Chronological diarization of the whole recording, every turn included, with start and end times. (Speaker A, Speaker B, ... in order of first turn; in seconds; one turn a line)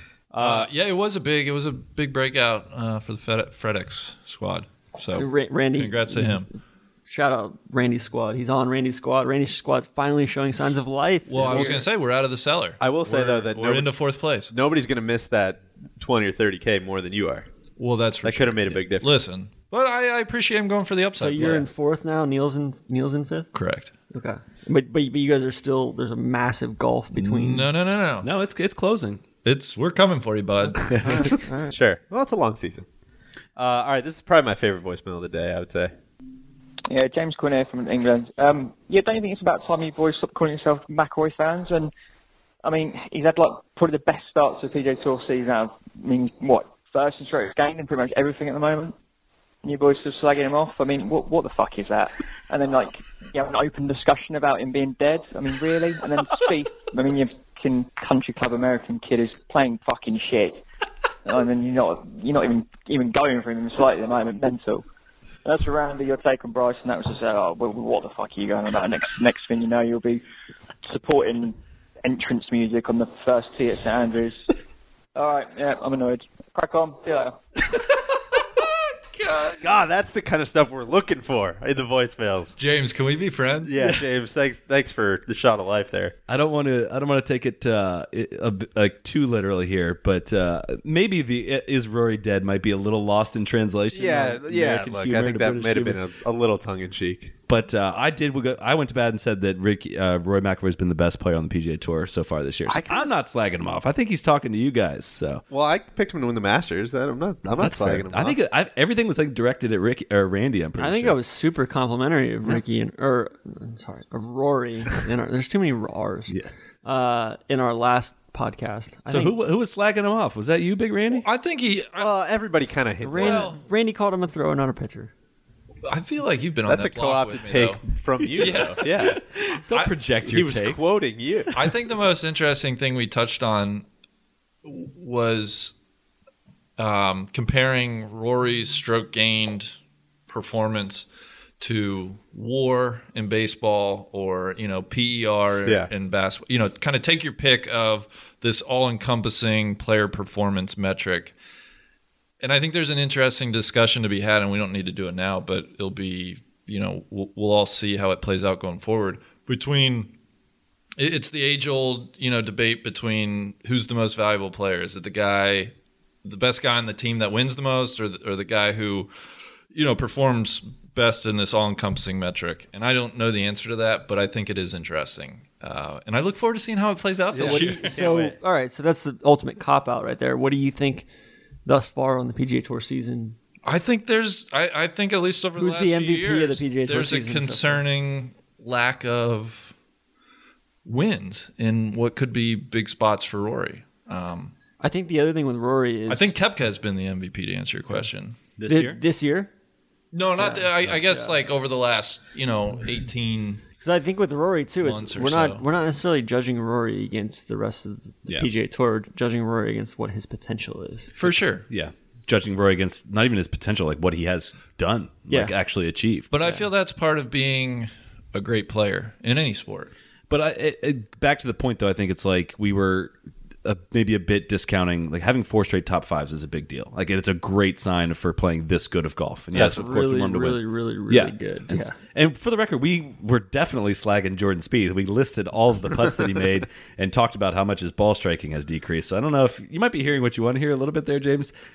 Speaker A: 0.3-0.7
Speaker B: 0.4-6.5
Speaker C: 5.2-6.4
Speaker C: 7.1-11.8
Speaker B: 11.3-14.5
Speaker A: 11.4-11.7
Speaker A: 12.8-13.9
Speaker A: 14.5-17.5
Speaker B: 17.8-21.7
Speaker A: 18.2-19.1
Speaker C: 21.2-23.5
Speaker B: 23.5-23.9
Speaker C: 24.1-27.7
Speaker B: 27.1-28.3
Speaker D: 28.2-29.2
Speaker B: 29.4-31.0
Speaker C: 31.0-31.7
Speaker A: 31.7-32.9
Speaker A: 33.6-35.9
Speaker E: 36.9-41.9
Speaker E: 42.6-49.0
Speaker E: 49.6-60.6
Speaker E: 61.2-64.8
Speaker E: 65.5-70.2
Speaker E: 70.9-74.5
Speaker E: 75.2-77.4
Speaker B: 79.2-79.6
Speaker A: 79.6-82.5
Speaker B: 82.6-83.8
Speaker A: 83.7-86.2
Speaker D: 86.3-96.0
Speaker A: 93.9-97.3
Speaker D: 97.5-105.4
Speaker A: 102.7-103.1
Speaker A: 105.5-108.4
Speaker D: 107.6-111.2
Speaker C: 110.8-119.4
Speaker D: 119.1-121.3
Speaker B: 121.2-122.1
Speaker A: 122.0-123.5
Speaker C: 123.0-125.1
Speaker B: 123.2-123.6
Speaker B: 125.9-128.8
Speaker A: 126.7-129.2
Speaker D: 128.9-130.9
Speaker A: 130.2-131.5
Speaker B: 131.5-133.8
Speaker B: 134.7-135.7
Speaker B: 136.8-139.7
Speaker B: 140.3-141.1
Speaker B: 141.6-151.3
Speaker B: 152.4-160.1
Speaker B: 161.0-165.7
Speaker B: 166.2-169.1
Speaker B: 169.7-177.9
Speaker A: 177.3-178.4
Speaker C: 177.3-181.1
Speaker C: 181.7-183.4
Speaker B: 183.6-189.7
Speaker C: 185.6-187.8
Speaker B: 190.8-194.5
Speaker C: 194.8-196.3
Speaker B: 196.1-198.4
Speaker D: 198.6-199.0
Speaker C: 198.7-199.5
Speaker B: 200.1-203.6
Speaker C: 200.4-201.3
Speaker C: 203.8-211.1
Speaker B: 204.8-205.6
Speaker B: 211.2-211.7
Speaker D: 211.2-216.3
Speaker C: 215.3-215.5
Speaker B: 216.3-219.9
Speaker D: 220.3-241.5
Speaker C: 229.6-232.0